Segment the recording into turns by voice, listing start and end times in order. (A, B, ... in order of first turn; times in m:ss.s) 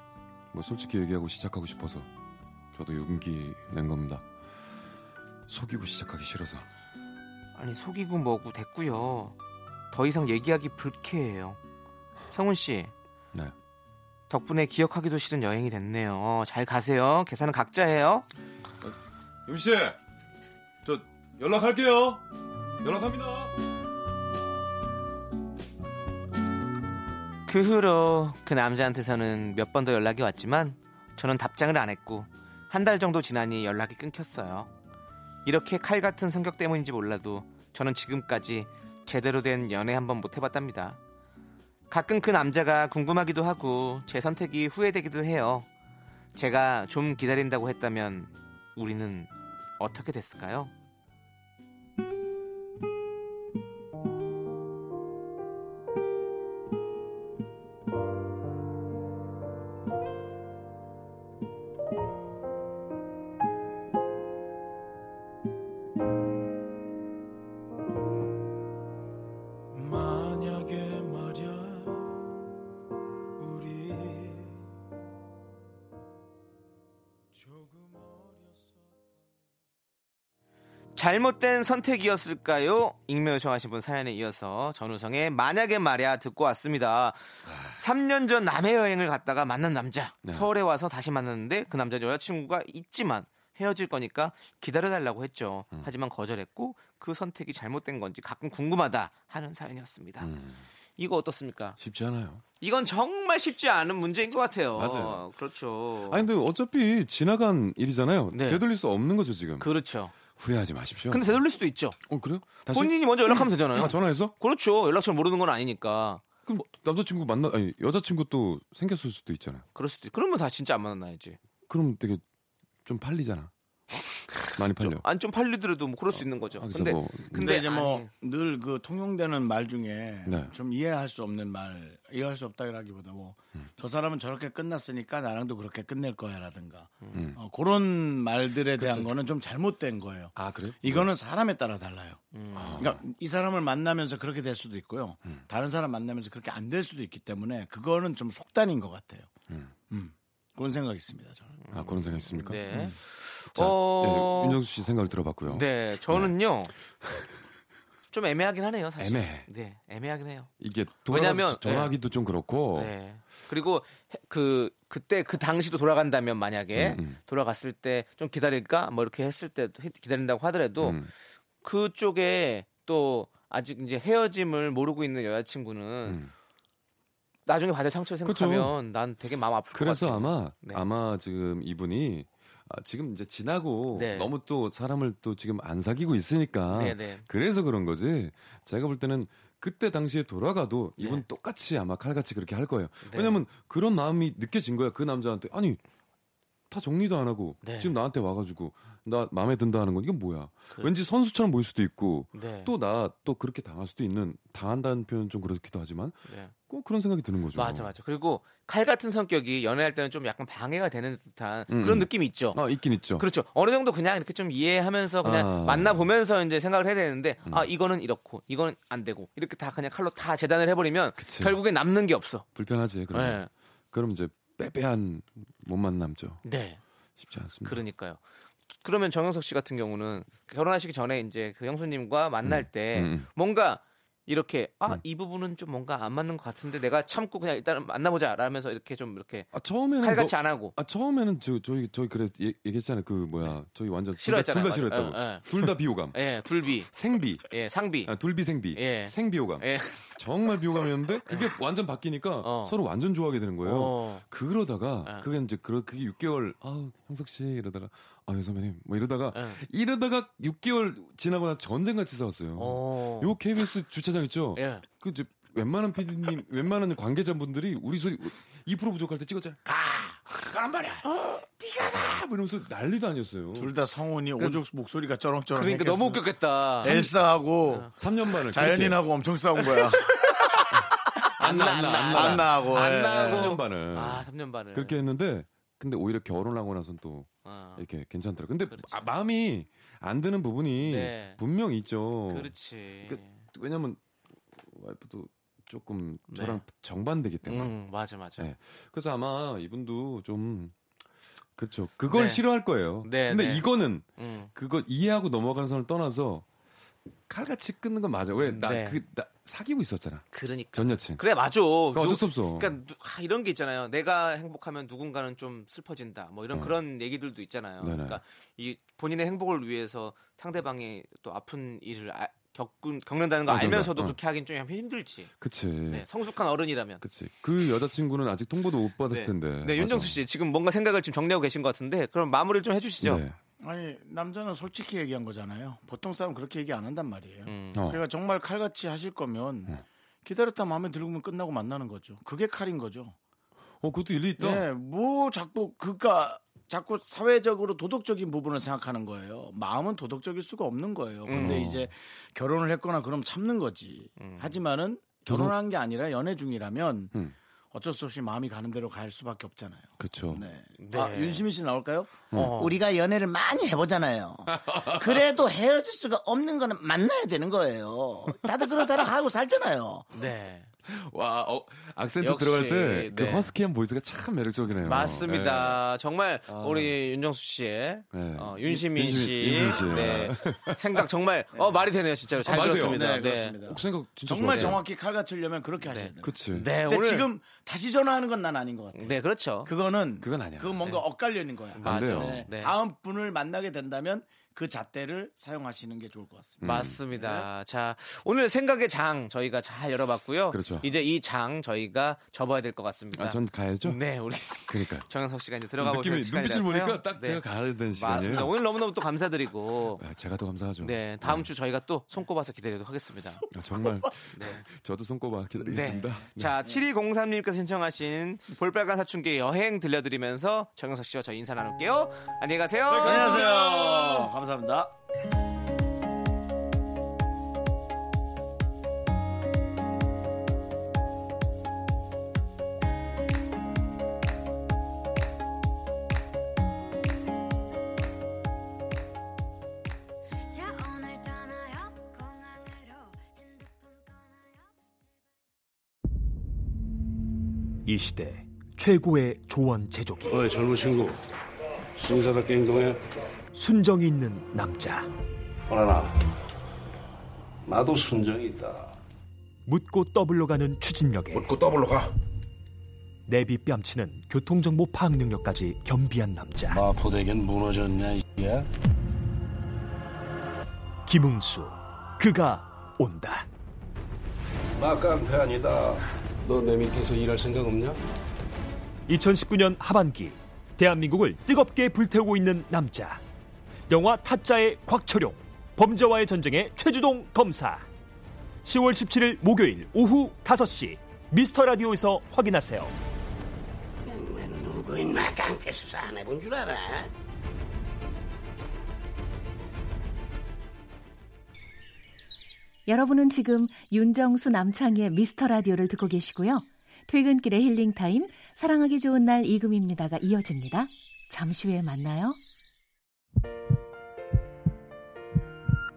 0:00.5-0:02.1 A
0:02.7-0:04.2 A
0:05.5-0:06.7 A
0:07.6-0:09.4 B
0:09.9-0:11.6 B
0:12.3-0:12.9 B
0:14.3-0:18.3 B
0:18.8-0:20.0 A
0:20.8-0:22.2 A
0:22.8-0:23.5 A
0:27.5-0:34.7 B
0:35.4-0:41.0 B
0:41.9-0:45.7 B
0:46.4-0:50.7 B
1:09.7-1:12.1 C
1:13.4-1:14.6 C
1:17.4-1:18.7 C
1:21.0-1:27.2 B
1:27.5-1:27.8 A
1:27.7-1:40.3 B
1:40.2-1:40.6 A
1:41.0-1:41.8 B
1:41.8-1:42.4 A
1:42.6-1:46.3 B
1:44.8-1:45.3 A
1:46.1-1:49.7 A
1:48.3-1:48.6 B
1:49.6-1:50.2 B
1:50.2-1:51.4 A
1:51.1-1:52.0 B
1:52.0-1:54.3 A
1:52.7-1:56.2 B
1:56.5-1:59.6 A
1:59.8-2:01.4 B
2:01.7-2:02.2 A
2:02.8-2:03.5 A
2:03.9-2:08.1 B
2:04.6-2:05.1 A
2:06.1-2:07.6 A
2:07.3-2:22.2 C
2:18.8-2:19.1 A
2:20.4-2:21.1 A
2:22.3-2:22.9 B
2:22.6-2:23.0 A
2:22.8-2:29.3 C
2:29.9-2:31.6 C
2:31.6-2:34.6 B
2:31.7-2:33.0 A
2:33.6-2:36.3 A
2:35.5-2:36.7 B
2:38.1-2:40.5 B
2:39.0-2:39.5 A
2:40.6-2:42.9 A
2:41.1-2:41.9 B
2:42.7-2:51.0 B
2:46.8-2:47.2 A
2:50.8-2:51.1 A
2:51.6-2:56.2 B
2:56.0-2:56.3 A
2:57.5-3:00.8 B
2:58.2-2:58.8 A
2:59.7-3:15.8 A
3:03.9-3:04.3 B
3:06.7-3:07.2 B
3:11.0-3:11.2 B
3:13.0-3:13.4 B
3:16.7-3:27.9 A
3:17.6-3:18.0 B
3:22.4-3:22.7 B
3:26.3-3:26.5 B
3:27.6-3:32.6 B
3:31.7-3:33.3 A
3:33.2-3:42.5 B
3:35.2-3:36.1 A
3:41.2-3:41.6 A
3:42.6-3:46.4 A
3:43.1-3:43.5 B
3:46.4-3:46.8 B
3:47.2-3:47.8 A
3:47.6-3:48.2 B
3:48.8-4:00.7 B
3:52.4-3:53.3 A
3:59.5-4:06.2 A
4:04.2-4:05.5 B
4:06.1-4:06.9 B
4:06.9-4:07.5 A
4:07.5-4:08.1 B
4:08.1-4:29.8 A
4:08.7-4:10.2 B
4:11.3-4:11.6 B
4:12.4-4:12.8 B
4:13.6-4:14.2 B
4:19.3-4:19.6 B
4:22.6-4:23.4 B
4:24.6-4:24.8 B
4:30.3-4:30.9 A
4:31.8-4:33.7 A
4:33.6-4:36.2 C
4:35.6-4:37.1 B
4:36.8-4:37.9 C
4:37.9-4:39.0 A
4:38.5-4:41.2 C
4:39.8-4:40.6 B
4:40.7-4:52.5 A
4:41.4-4:45.0 B
4:42.1-4:43.6 C
4:47.5-4:47.8 B
4:48.7-4:49.1 B
4:50.8-4:51.4 B
4:52.3-4:53.3 B
4:53.0-4:54.0 A
4:54.6-4:57.8 A
4:56.3-4:56.6 B
4:57.4-4:58.5 B
4:58.4-5:00.7 A
5:01.6-5:06.4 A
5:02.1-5:02.4 B
5:03.0-5:03.7 B
5:04.2-5:04.5 B
5:07.3-5:11.2 A
5:08.5-5:09.0 B
5:10.3-5:25.3 B
5:11.9-5:12.7 A
5:17.8-5:18.2 A
5:23.5-5:24.2 A
5:25.4-5:26.1 A
5:25.9-5:27.0 B
5:27.0-5:30.2 A
5:29.1-5:33.2 B
5:33.0-5:33.4 A
5:33.6-5:43.2 C
5:37.5-5:37.8 B
5:37.8-5:38.0 A
5:43.8-5:44.7 A
5:44.4-5:57.1 C
5:51.3-5:51.7 B
5:51.3-5:51.9 A
5:54.2-5:54.5 B
5:55.3-5:55.6 A
5:57.7-6:10.1 C
6:00.0-6:00.4 A
6:00.8-6:01.5 B
6:02.3-6:02.6 A
6:02.3-6:02.8 B
6:04.5-6:05.2 A
6:10.1-6:10.7 B
6:10.8-6:15.8 A
6:12.2-6:13.5 B
6:14.8-6:23.6 B
6:16.5-6:16.9 A
6:18.1-6:21.1 A
6:22.4-6:24.8 A
6:22.6-6:37.5 C
6:24.4-6:24.8 B
6:25.9-6:27.3 B
6:26.2-6:26.7 A
6:29.0-6:29.7 B
6:30.2-6:30.9 A
6:31.8-6:32.8 B
6:31.8-6:32.5 A
6:36.6-6:37.0 A
6:36.6-6:50.0 B
6:40.5-6:40.9 A
6:43.1-6:44.0 A
6:44.7-6:45.1 A
6:45.8-6:48.6 A
6:50.0-6:51.5 A
6:50.8-6:53.5 B
6:53.5-6:56.6 A
6:53.6-6:54.2 C
6:54.3-6:54.6 B
6:55.6-7:04.3 B
7:02.9-7:04.9 C
7:20.5-7:23.3 D
7:23.8-7:24.5 D
7:27.8-7:30.4 E
7:30.3-7:31.2 F
7:32.0-7:33.0 F
7:33.5-7:35.1 E
7:35.7-7:36.2 F
7:37.6-7:39.0 F
7:39.7-7:41.5 E
7:41.3-7:42.1 F
7:43.3-7:46.8 E
7:46.7-7:48.7 F
7:51.1-7:53.5 E
7:54.8-7:58.0 F
7:59.1-8:03.2 E
8:03.9-8:07.9 E
8:08.6-8:12.9 E
8:14.1-8:17.1 G
8:22.9-8:32.4 H